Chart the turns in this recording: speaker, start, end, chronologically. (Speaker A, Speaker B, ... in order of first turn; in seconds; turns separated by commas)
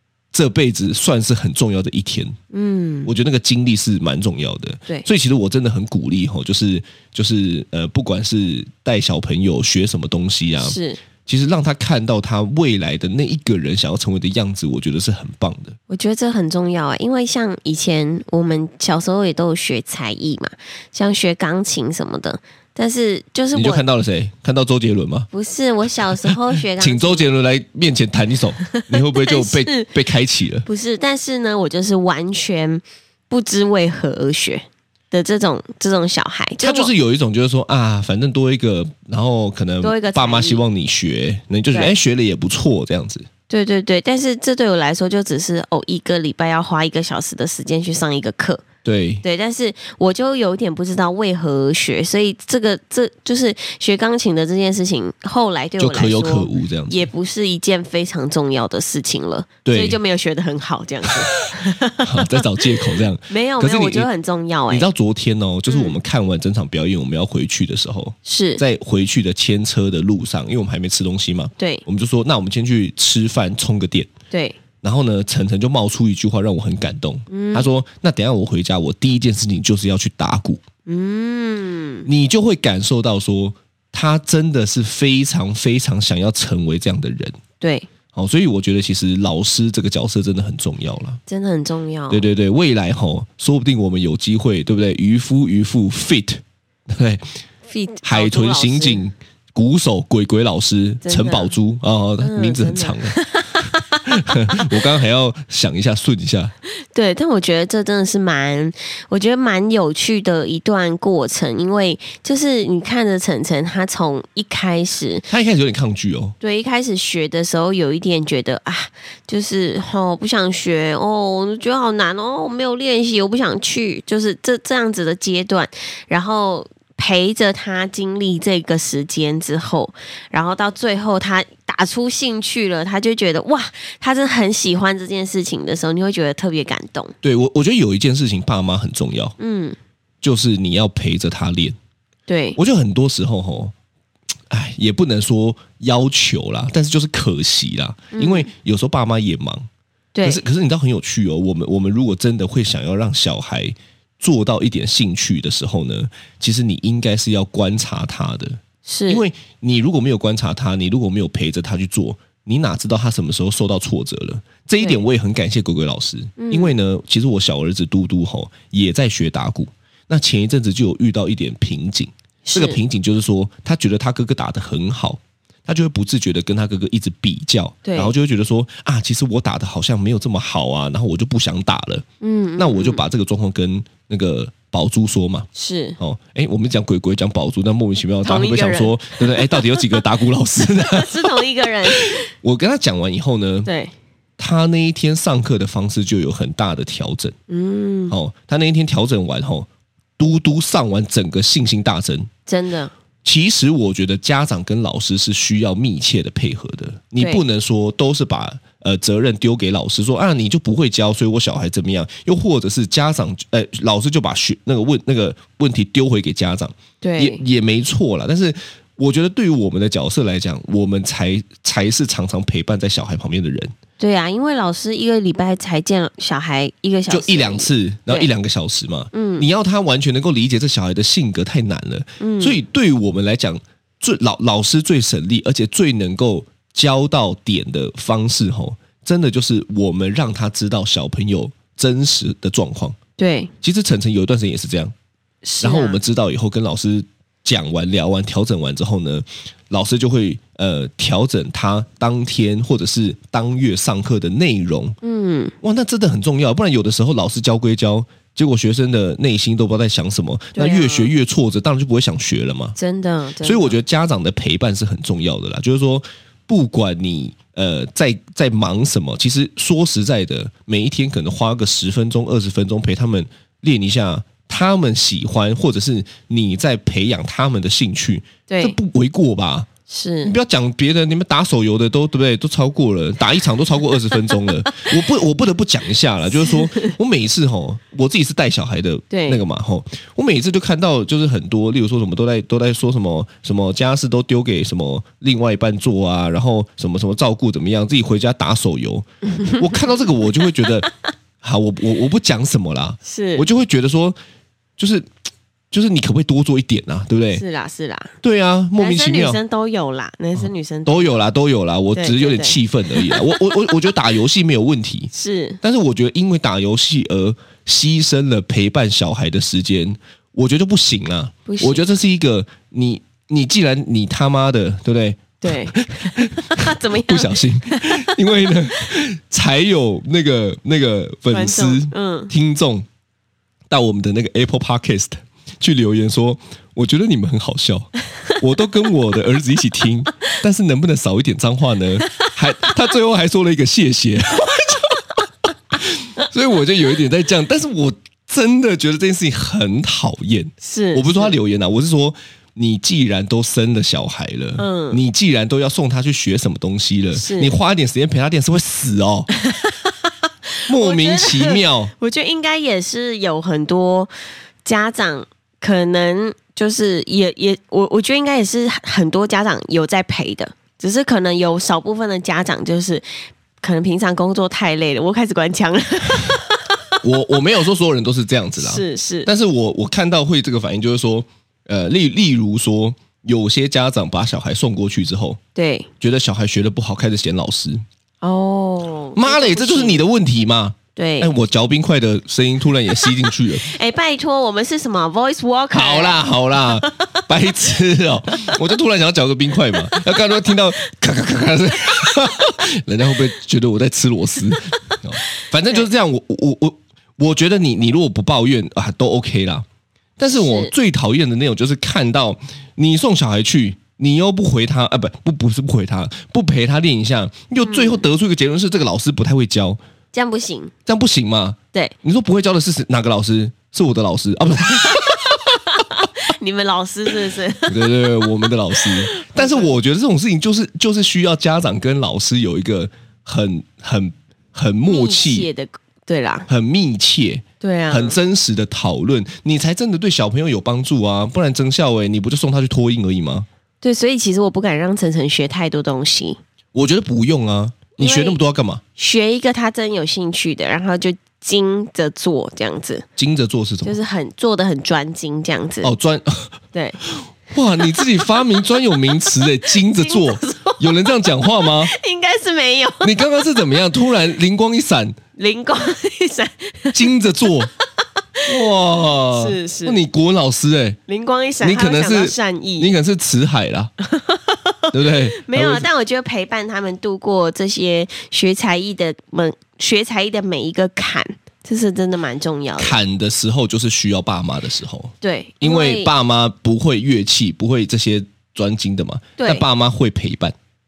Speaker A: 0.3-2.4, Speaker B: 2.5-3.1, Speaker A: 3.1-15.8, Speaker B: 10.6-11.0, Speaker B: 15.9-23.8, Speaker A: 23.5-25.3, Speaker B: 25.3-27.3, Speaker A: 26.3-30.7, Speaker B: 28.8-29.9, Speaker B: 30.7-36.9, Speaker A: 36.6-43.3, Speaker B: 39.8-40.6, Speaker B: 43.5-48.6, Speaker A: 48.9-49.2, Speaker B: 49.2-62.5, Speaker A: 55.8-57.0, Speaker A: 59.6-60.0, Speaker A: 62.0-64.1, Speaker B: 63.3-64.9, Speaker A: 64.7-74.1, Speaker B: 65.7-66.0, Speaker B: 68.2-68.6, Speaker B: 71.6-71.8, Speaker B: 74.3-74.6, Speaker A: 74.8-80.6, Speaker B: 77.3-77.7, Speaker B: 80.9-82.1, Speaker A: 82.1-87.4, Speaker B: 87.6-87.9, Speaker A: 88.1-91.2, Speaker B: 91.3-92.3, Speaker A: 92.1-97.2, Speaker B: 97.7-99.0, Speaker A: 98.0-106.5, Speaker B: 101.0-101.5, Speaker B: 102.2-104.6, Speaker B: 106.9-115.3, Speaker A: 115.3-116.3, Speaker B: 116.4-137.1, Speaker A: 137.2-139.3, Speaker B: 139.4-139.8, Speaker A: 140.2-141.8, Speaker B: 142.3-142.6, Speaker A: 142.6-143.7, Speaker A: 144.5-149.7, Speaker B: 148.1-148.5, Speaker B: 150.2-150.4, Speaker A: 150.2-182.1, Speaker B: 158.8-159.2, Speaker B: 166.4-166.8, Speaker B: 172.4-172.8, Speaker B: 177.8-178.1, Speaker B: 182.2-183.0, Speaker A: 182.6-185.5, Speaker B: 185.6-186.0, Speaker A: 186.0-193.7, Speaker B: 188.2-190.1, Speaker B: 190.8-192.3, Speaker B: 193.7-193.9, Speaker A: 194.4-197.3, Speaker B: 197.5-198.2, Speaker A: 198.1-199.7, Speaker A: 200.2-202.3, Speaker B: 202.5-202.9, Speaker A: 203.2-223.7, Speaker B: 207.2-207.4, Speaker B: 217.0-217.4, Speaker B: 224.0-228.3, Speaker A: 227.1-243.0, Speaker B: 229.1-229.5, Speaker B: 232.2-232.6, Speaker B: 243.2-243.5, Speaker A: 243.6-244.9, Speaker B: 245.4-246.0, Speaker A: 245.6-255.0, Speaker B: 255.0-255.5, Speaker A: 255.6-262.8, Speaker B: 260.6-261.1, Speaker B: 262.8-263.8, Speaker A: 263.4-279.7, Speaker B: 278.5-278.8, Speaker B: 279.9-280.3, Speaker A: 280.2-299.1, Speaker B: 286.4-286.9, Speaker B: 289.1-289.4, Speaker B: 299.4-299.6, Speaker A: 299.6-300.9, Speaker A: 301.4-304.2, Speaker B: 303.0-303.5, Speaker A: 304.8-305.1, Speaker A: 305.7-307.4, Speaker B: 307.4-308.1, Speaker A: 308.2-309.4, Speaker B: 308.8-311.2, Speaker A: 310.4-315.1, Speaker B: 311.9-313.4, Speaker B: 315.1-315.6, Speaker A: 315.6-332.9, Speaker B: 321.5-321.8, Speaker B: 325.4-328.1, Speaker B: 331.3-332.3, Speaker A: 333.7-345.2, Speaker A: 345.7-359.3, Speaker B: 350.6-351.4, Speaker B: 354.6-355.0, Speaker B: 357.1-357.5, Speaker B: 359.4-360.1, Speaker B: 360.6-364.1, Speaker A: 360.7-361.9, Speaker B: 364.6-373.1, Speaker B: 373.6-376.9, Speaker A: 377.0-385.4, Speaker B: 378.6-379.3, Speaker B: 385.6-385.9, Speaker A: 386.0-387.8, Speaker B: 388.2-390.0, Speaker A: 389.2-393.7, Speaker B: 391.0-391.3, Speaker B: 393.6-396.2, Speaker A: 395.7-409.6, Speaker B: 396.8-397.0, Speaker A: 410.2-419.8, Speaker B: 410.3-410.7, Speaker B: 417.6-418.1, Speaker B: 420.1-420.7, Speaker A: 420.9-425.6, Speaker B: 425.8-429.7, Speaker A: 427.7-435.5, Speaker B: 434.9-436.5, Speaker A: 436.5-443.5, Speaker B: 437.6-438.2, Speaker B: 443.8-446.4, Speaker A: 446.7-448.8, Speaker B: 448.0-448.4, Speaker B: 449.0-453.1, Speaker A: 453.2-454.0, Speaker B: 453.8-455.9, Speaker A: 455.8-456.5, Speaker B: 456.7-457.0, Speaker A: 457.5-461.9, Speaker B: 459.9-460.8, Speaker B: 461.6-463.2, Speaker A: 463.0-465.2, Speaker B: 465.4-467.7, Speaker A: 466.9-467.7, Speaker A: 468.5-471.0, Speaker B: 469.3-470.0, Speaker B: 471.1-472.9, Speaker A: 471.6-473.9, Speaker B: 474.1-483.0, Speaker A: 474.9-475.9, Speaker A: 482.8-490.6, Speaker B: 485.2-486.1, Speaker B: 489.4-489.6